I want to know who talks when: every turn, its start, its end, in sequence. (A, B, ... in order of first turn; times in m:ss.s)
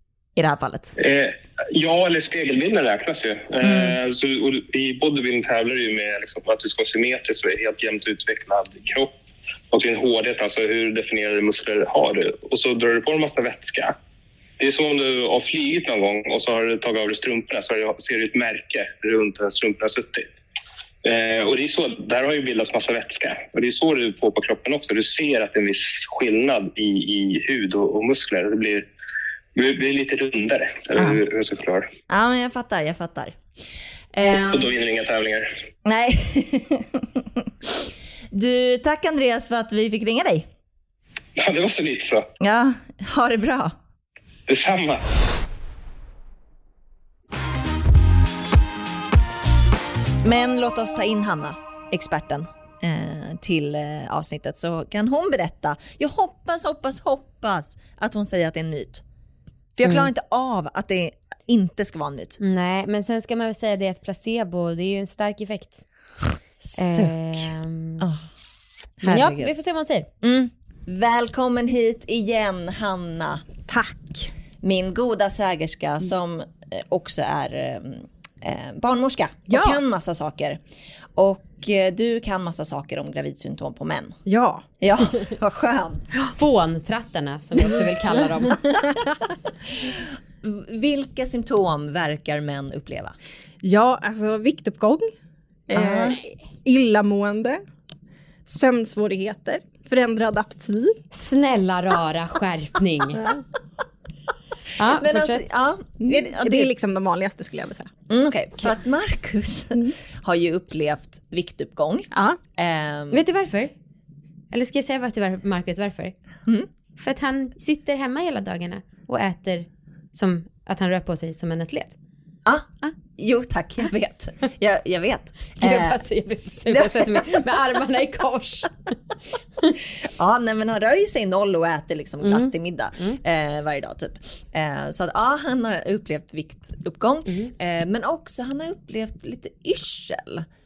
0:00.4-0:00.9 A
0:01.0-0:09.1 B
0:03.6-0:04.0 A
0:09.7-0:13.9 B
0:14.6-0:20.3 B
0:21.0-0:28.9 B
0:29.5-0:31.9 B
0:32.1-0:33.4 A
0:34.1-0:34.7 A
0:34.5-0:35.5 B
0:35.8-0:40.5 A
0:41.4-0:42.3 B
0:42.4-0:43.8 A
0:44.5-0:45.0 B
0:50.2-0:59.0 A
0:59.8-1:02.4 A
1:02.4-1:05.8 C
1:06.6-1:07.5 A
1:06.8-1:08.0 C
1:08.0-1:08.2 A
1:09.0-1:09.5 A
1:09.0-1:10.1 C
1:10.2-1:13.5 A
1:13.7-1:14.3 D
1:14.6-1:20.6 A
1:19.5-1:19.8 D
1:21.2-1:24.2 A
1:24.2-1:24.7 D
1:24.8-1:26.1 A
1:26.4-1:28.6 C
1:29.8-1:33.2 A
1:33.6-1:35.1 D
1:35.7-1:37.6 D
1:35.7-1:36.2 A
1:38.5-1:41.0 D
1:41.1-1:43.2 C
1:44.8-1:45.5 C
1:44.8-1:46.7 A
1:46.0-1:47.9 D
1:48.1-1:53.2 A
1:52.1-1:52.4 D
1:53.1-1:53.7 C
1:54.5-1:56.2 C
1:57.0-2:02.0 C
2:02.4-2:06.0 A
2:05.6-2:08.9 C
2:06.7-2:07.4 A
2:10.0-2:20.5 A
2:12.2-2:13.2 C